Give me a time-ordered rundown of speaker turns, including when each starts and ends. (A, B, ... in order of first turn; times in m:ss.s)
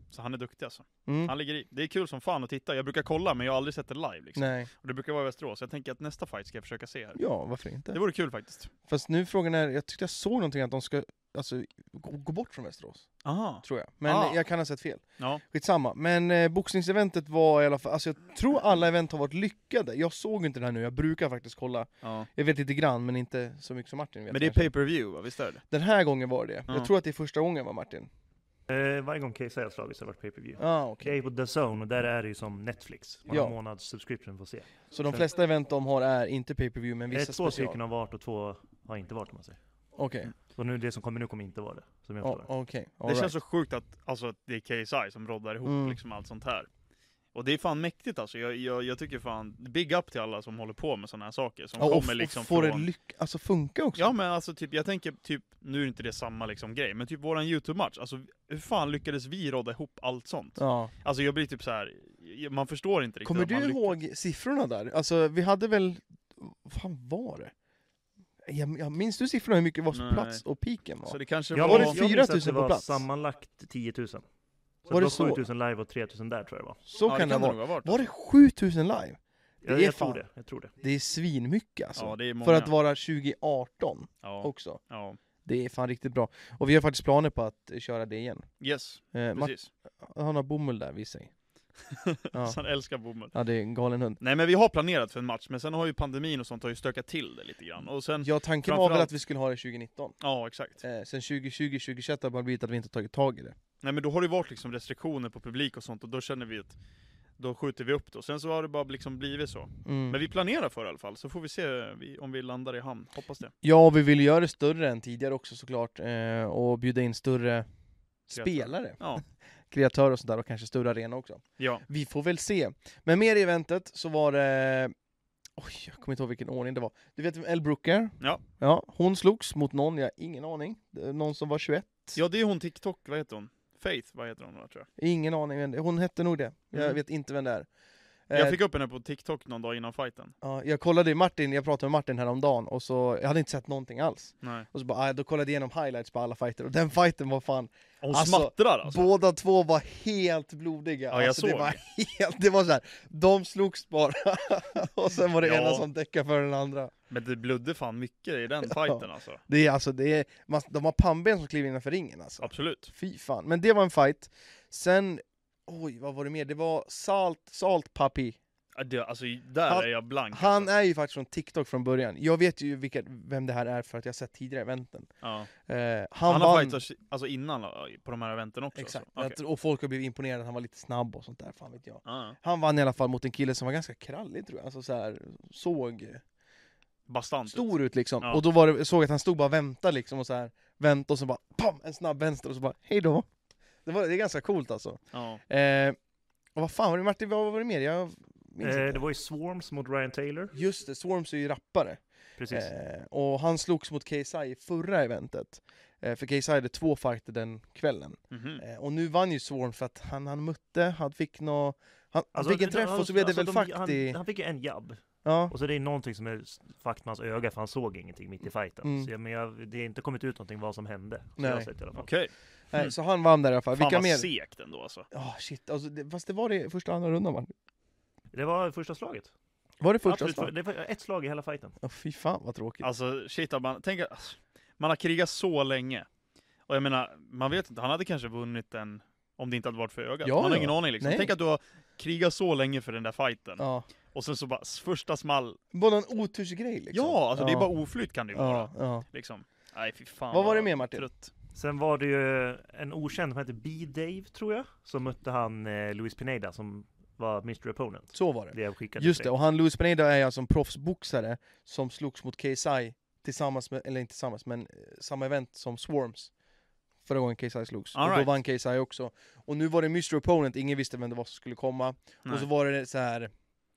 0:00.1-0:07.2 A
0:01.0-0:01.3 B
0:04.4-0:04.7 B
0:07.2-0:08.0 B
0:07.9-0:08.7 A
0:08.9-0:13.1 B
0:13.2-0:14.4 A
0:13.6-0:24.7 B
0:22.0-0:22.3 A
0:24.3-0:25.6 A
0:25.7-0:28.1 B
0:28.7-0:35.3 C
0:30.6-0:31.2 B
0:33.3-0:33.5 B
0:34.9-0:37.8 B
0:37.1-0:39.6 C
0:39.9-0:40.3 B
0:40.6-0:42.5 C
0:42.2-0:43.3 B
0:43.0-0:46.7 A
0:45.6-0:46.0 B
0:47.3-0:52.9 A
0:51.8-0:54.1 B
0:54.0-1:04.0 A
1:00.6-1:00.9 B
1:03.2-1:07.5 B
1:08.4-1:13.0 B
1:09.9-1:10.4 A
1:11.0-1:12.0 A
1:11.5-1:14.2 C
1:14.9-1:16.8 C
1:14.9-1:15.4 B
1:16.9-1:20.2 B
1:17.0-1:18.0 A
1:19.6-1:20.7 C
1:20.8-1:24.8 B
1:22.0-1:22.7 A
1:24.2-1:25.2 A
1:25.4-1:28.5 B
1:28.6-1:29.7 A
1:29.1-1:31.3 B
1:31.9-1:33.3 A
1:32.3-1:32.6 B
1:33.3-1:34.2 B
1:34.2-1:39.1 A
1:38.2-1:40.2 B
1:40.2-1:40.8 A
1:40.8-1:43.6 B
1:43.8-1:46.8 A
1:47.4-1:53.5 A
1:49.8-1:50.2 B
1:53.6-1:57.6 B
1:58.3-1:59.0 B
1:58.3-1:59.2 A
1:59.7-2:04.9 B
2:01.6-2:01.8 A
2:05.6-2:12.2 B
2:12.1-2:14.9 A
2:15.0-2:17.7 B
2:18.3-2:18.6 B
2:18.3-2:20.3 A
2:20.4-2:36.9 B
2:24.4-2:24.7 A
2:28.0-2:29.1 A
2:31.1-2:31.8 A
2:35.4-2:35.8 A
2:37.1-2:39.4 A
2:38.6-2:48.4 B
2:42.4-2:42.9 A
2:48.7-2:50.7 A
2:49.7-2:55.1 B
2:55.2-2:55.5 A
2:55.6-2:56.8 B
2:56.3-2:59.4 A
2:58.8-3:06.2 B
3:02.0-3:02.4 A
3:07.1-3:07.7 A
3:07.5-3:13.2 B
3:13.8-3:16.0 B
3:15.1-3:15.4 A
3:16.5-3:19.0 B
3:18.6-3:20.5 C
3:20.5-3:34.2 B
3:22.4-3:22.7 C
3:28.3-3:28.6 A
3:32.3-3:42.1 C
3:35.2-3:35.5 B
3:38.8-3:39.1 B
3:41.4-3:41.7 B
3:42.0-3:42.9 A
3:42.7-3:44.3 B
3:43.7-3:45.1 A
3:45.1-3:47.5 B
3:48.3-3:49.3 C
3:49.8-3:50.5 B
3:50.0-3:51.8 C
3:51.8-3:52.9 B
3:52.8-3:56.1 A
3:56.7-4:05.6 A
4:00.2-4:01.3 B
4:03.6-4:03.9 B
4:05.7-4:07.7 B
4:06.9-4:11.3 A
4:08.3-4:09.0 B
4:10.3-4:11.1 B
4:11.5-4:19.3 C
4:18.1-4:26.3 B
4:27.0-4:33.3 B
4:27.9-4:28.3 A